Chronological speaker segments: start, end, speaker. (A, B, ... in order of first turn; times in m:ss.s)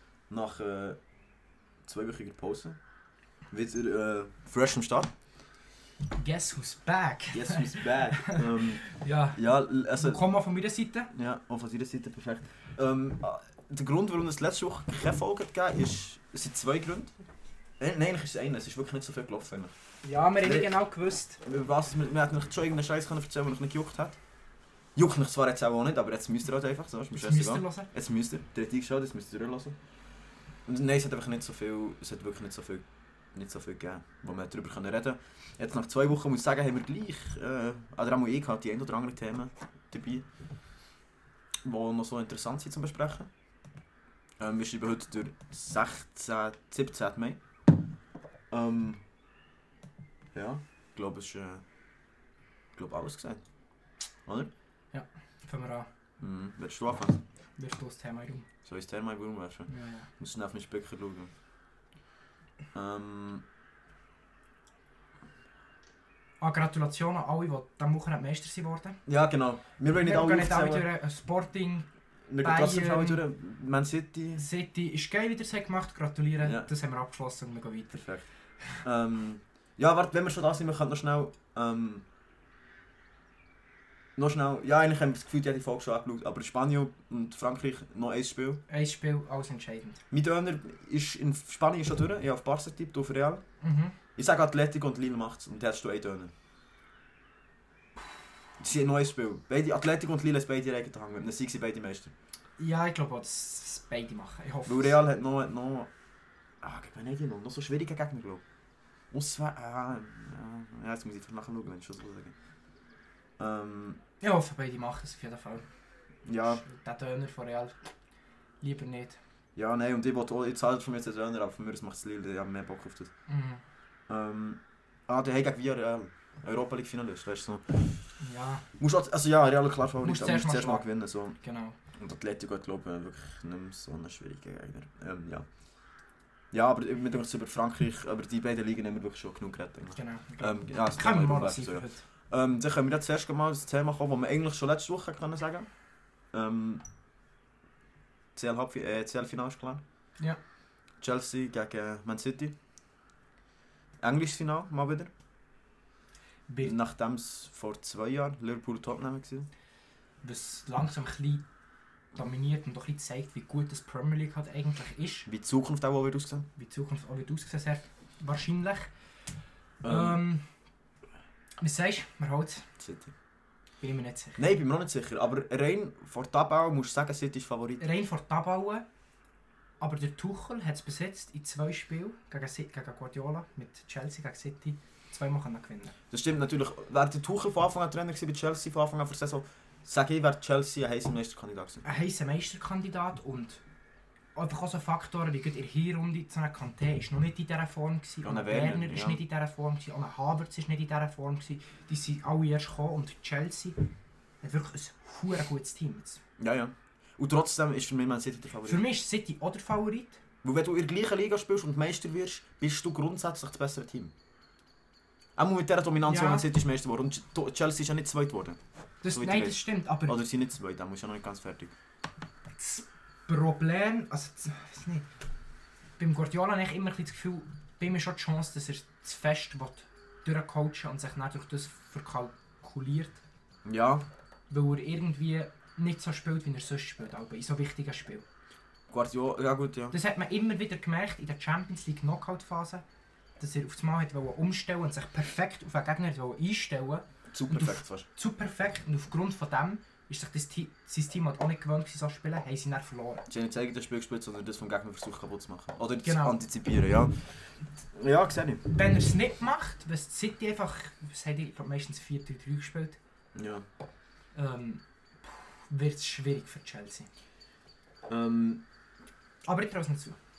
0:00.3-0:01.0 A
0:01.8-0:02.8 A
0:03.5-0:05.1 A
0:06.1-0:09.4 B
0:07.3-0:10.2 A
0:10.0-0:11.1 B
0:11.1-0:17.1 A
0:17.8-0:19.7 A
0:20.0-0:21.4 B
0:20.4-0:20.7 A
0:21.4-0:24.2 A
0:25.0-0:29.8 A
0:27.1-0:27.9 B
0:30.7-0:40.3 A
0:41.6-0:43.3 A
0:44.4-0:47.4 A
0:48.5-0:49.0 A
0:50.4-0:51.6 A
0:52.8-0:53.4 A
0:54.9-0:55.9 B
0:56.2-0:57.2 A
0:57.6-0:58.5 B
0:58.6-1:01.3 A
0:59.7-1:00.1 B
1:02.7-1:03.4 A
1:06.4-1:09.0 B
1:09.1-1:10.9 A
1:10.0-1:11.9 B
1:12.3-1:14.5 A
1:12.4-1:13.2 B
1:14.4-1:18.0 B
1:16.4-1:16.7 A
1:17.9-1:18.2 A
1:18.8-1:22.0 A
1:24.2-1:28.6 A
1:28.7-1:30.0 B
1:30.1-1:33.4 A
1:33.6-1:34.0 B
1:34.2-1:36.3 A
1:38.6-1:42.1 A
1:42.6-1:45.0 B
1:44.7-1:45.9 A
1:46.6-1:48.4 A
1:49.1-1:52.3 A
1:53.4-1:54.0 A
1:54.2-1:55.6 B
1:56.3-1:56.6 A
1:56.5-1:57.8 B
1:58.6-1:59.2 B
1:59.6-2:03.1 A
2:03.3-2:03.6 B
2:04.1-2:08.0 A
2:08.2-2:08.6 B
2:08.8-2:11.4 A
2:10.0-2:10.9 B
2:11.4-2:11.8 B
2:12.0-2:15.5 A
2:16.5-2:25.7 A
2:20.0-2:22.0 B
2:26.3-2:26.8 A
2:28.4-2:29.8 A
2:31.0-2:32.5 A
2:34.0-2:35.1 A
2:36.5-2:36.8 B
2:36.6-2:39.5 A
2:40.2-2:41.4 B
2:42.2-2:45.3 B
2:45.3-2:46.5 A
2:46.6-2:48.9 B
2:49.8-2:50.2 A
2:49.8-2:50.4 B
2:51.6-2:52.6 B
2:52.8-2:53.1 A
2:53.8-2:54.4 B
2:54.4-2:57.8 A
2:57.8-2:58.8 B
2:59.8-3:06.0 B
3:06.1-3:11.8 A
3:11.8-3:13.6 B
3:14.4-3:23.8 B
3:18.2-3:19.2 A
3:24.4-3:26.2 B
3:26.4-3:28.8 A
3:28.7-3:30.2 B
3:30.4-3:34.1 A
3:35.4-3:41.7 A
3:36.1-3:36.5 B
3:39.0-3:40.2 B
3:42.5-3:45.1 B
3:46.0-3:53.2 B
3:53.7-3:54.0 A
3:54.5-3:58.3 B
3:58.9-4:00.0 A
3:59.9-4:02.8 B
4:03.4-4:13.3 B
4:07.3-4:08.1 A
4:13.3-4:17.3 A
4:16.0-4:16.4 B
4:17.9-4:18.7 A
4:18.7-4:23.0 B
4:23.4-4:23.7 A
4:24.4-4:27.1 B
4:28.1-4:28.6 A
4:29.4-4:30.2 B